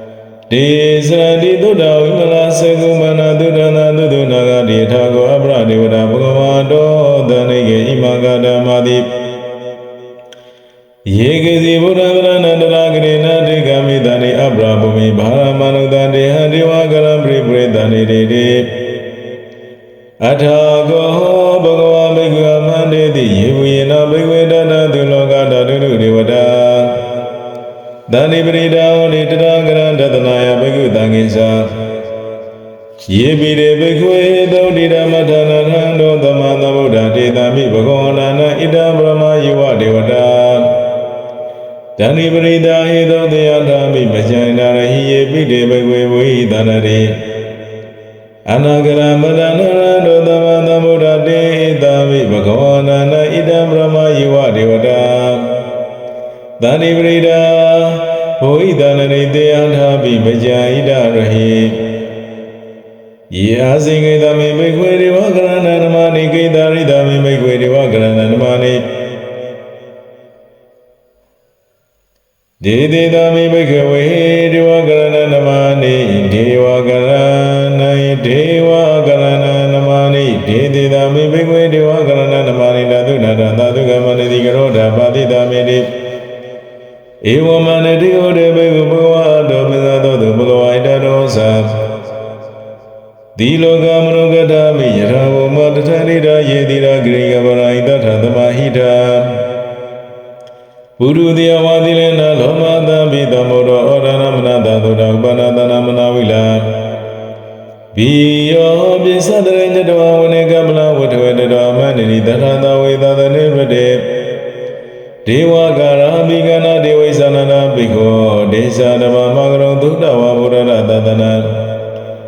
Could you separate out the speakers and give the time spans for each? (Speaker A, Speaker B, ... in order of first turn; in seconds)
Speaker A: 0.5-9.1, 11.1-18.8, 20.2-27.0, 28.1-31.8, 33.1-40.8, 42.0-47.2, 48.5-55.5, 56.6-61.9, 63.3-68.9, 72.6-85.9, 87.2-91.8, 93.4-99.4, 101.0-106.8, 107.9-114.1, 115.2-121.6